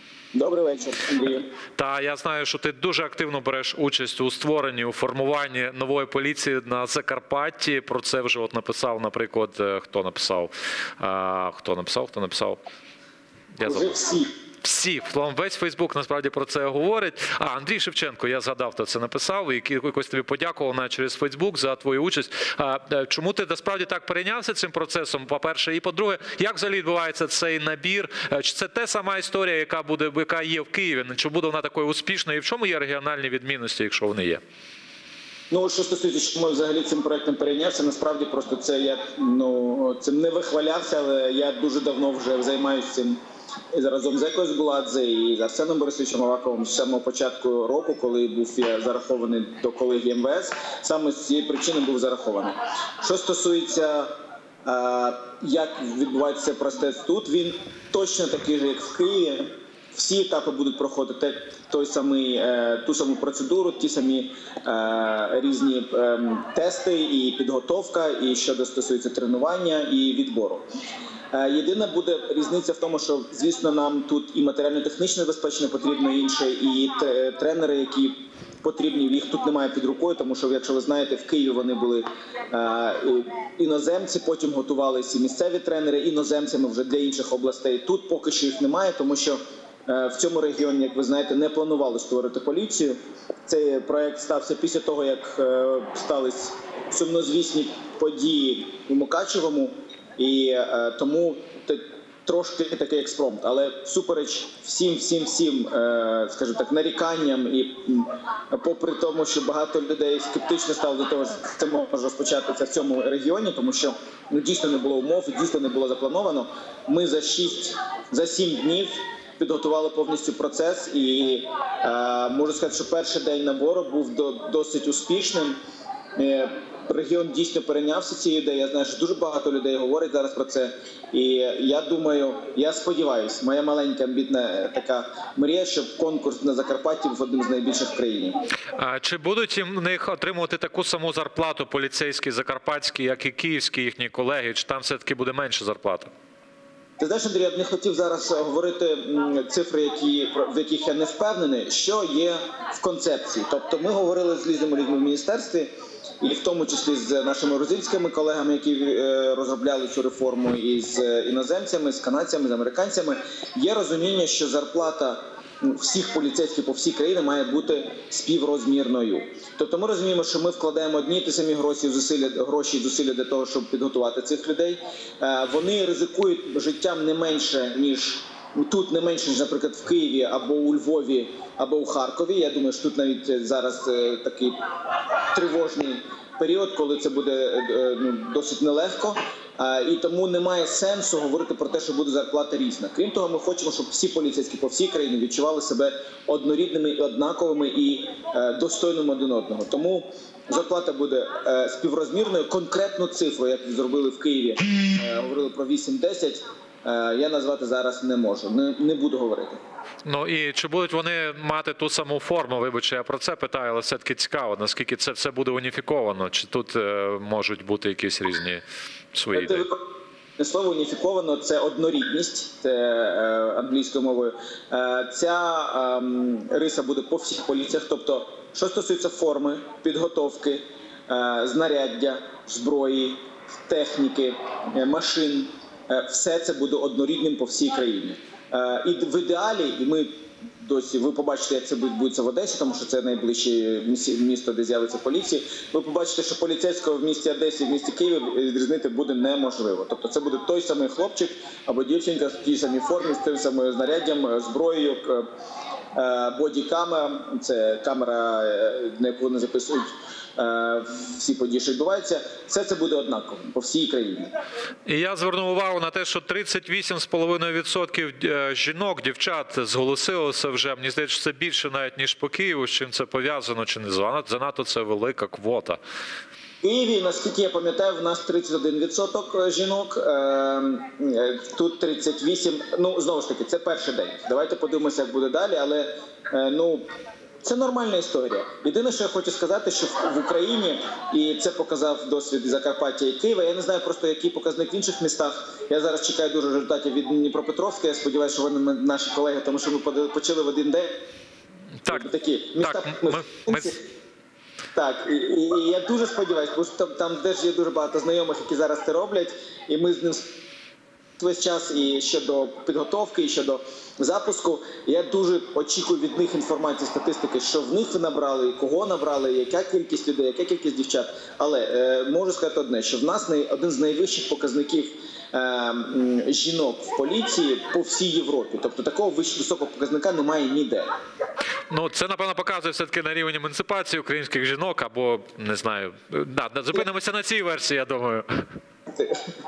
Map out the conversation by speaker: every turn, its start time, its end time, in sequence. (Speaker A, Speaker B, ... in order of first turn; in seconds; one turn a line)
Speaker A: 0.3-1.5
Speaker B: 1.8-12.6
Speaker B: 13.6-13.9
Speaker A: 13.6-14.3
Speaker B: 14.6-34.4
Speaker A: 35.5-43.2
Speaker A: 43.7-54.1
Speaker A: 54.6-70.6
Speaker A: 71.3-125.6
Speaker A: 126.2-138.4
Speaker B: 138.8-146.1
Speaker A: 147.0-184.6
Speaker A: 185.3-209.6
Speaker B: 210.0-218.6
Speaker B: 219.1-219.6
Speaker A: 219.3-219.8
Speaker A: 220.4-255.2
Speaker A: 255.9-264.3
Speaker B: 264.9-275.8
Speaker A: 276.6-286.8
Speaker A: 287.4-301.0
Speaker A: 301.9-303.8
Speaker B: 302.6-303.7
Speaker A: 304.7-310.3
Speaker A: 311.2-330.9
Speaker B: 331.7-338.3
Speaker A: 338.9-339.2